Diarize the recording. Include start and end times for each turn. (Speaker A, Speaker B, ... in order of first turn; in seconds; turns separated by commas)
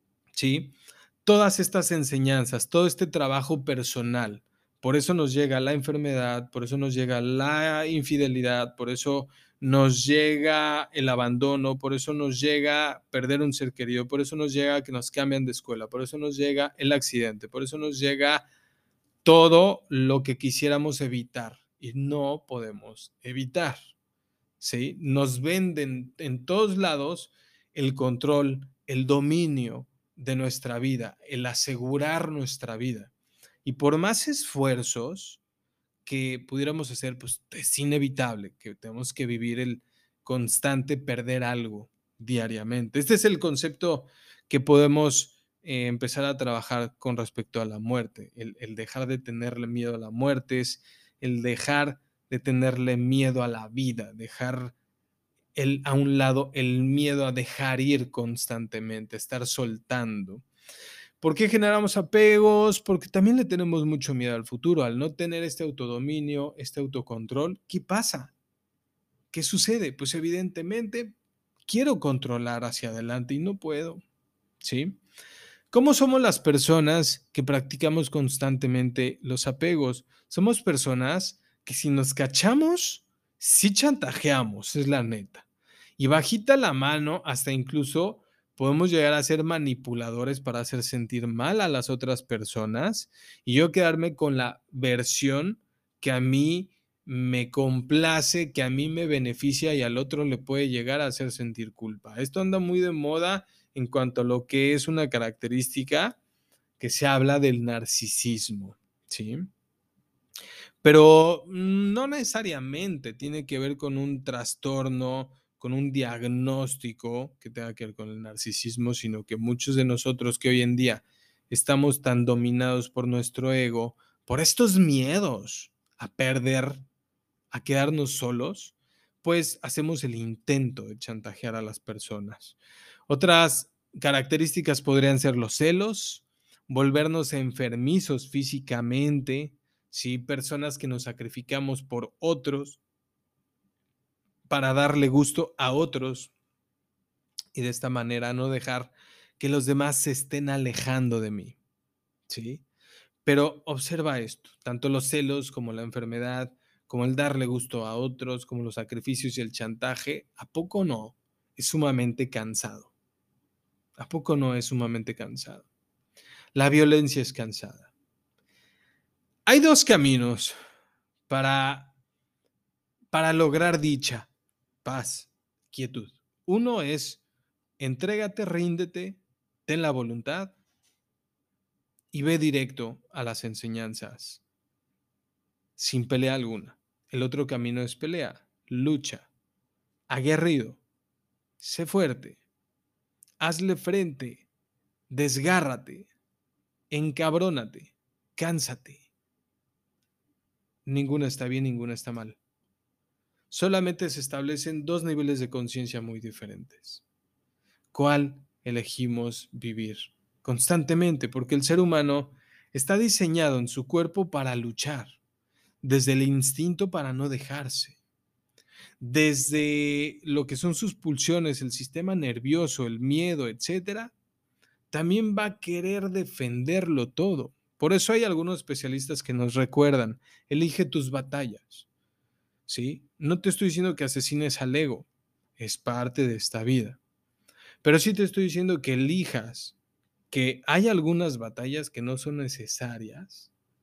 Speaker A: 0.3-18.5, Speaker A: 19.2-23.8, Speaker A: 24.6-33.1, Speaker A: 33.6-35.4, Speaker A: 36.0-54.7, Speaker A: 55.5-60.4, Speaker A: 61.2-68.3, Speaker A: 69.3-71.1, Speaker A: 71.7-74.0, Speaker A: 74.6-75.0, Speaker A: 75.7-85.4, Speaker A: 86.0-106.2, Speaker A: 106.8-109.5, Speaker A: 110.8-126.8, Speaker A: 127.5-132.6, Speaker A: 133.1-142.8, Speaker A: 144.5-146.3, Speaker A: 147.5-151.6, Speaker A: 152.3-152.6, Speaker A: 153.2-162.9, Speaker A: 164.0-165.6, Speaker A: 166.5-167.9, Speaker A: 169.4-170.5, Speaker A: 171.3-171.9, Speaker A: 173.1-174.3, Speaker A: 174.8-177.2, Speaker A: 177.8-180.6, Speaker A: 182.1-184.4, Speaker A: 185.8-189.3, Speaker A: 190.1-190.8, Speaker A: 191.6-192.4, Speaker A: 193.4-194.4, Speaker A: 195.1-196.1, Speaker A: 196.9-199.0, Speaker A: 200.8-202.4, Speaker A: 203.5-207.0, Speaker A: 207.9-215.2, Speaker A: 215.8-218.0, Speaker A: 219.0-224.1, Speaker A: 224.9-231.8, Speaker A: 232.7-237.0, Speaker A: 237.8-239.7, Speaker A: 240.3-243.5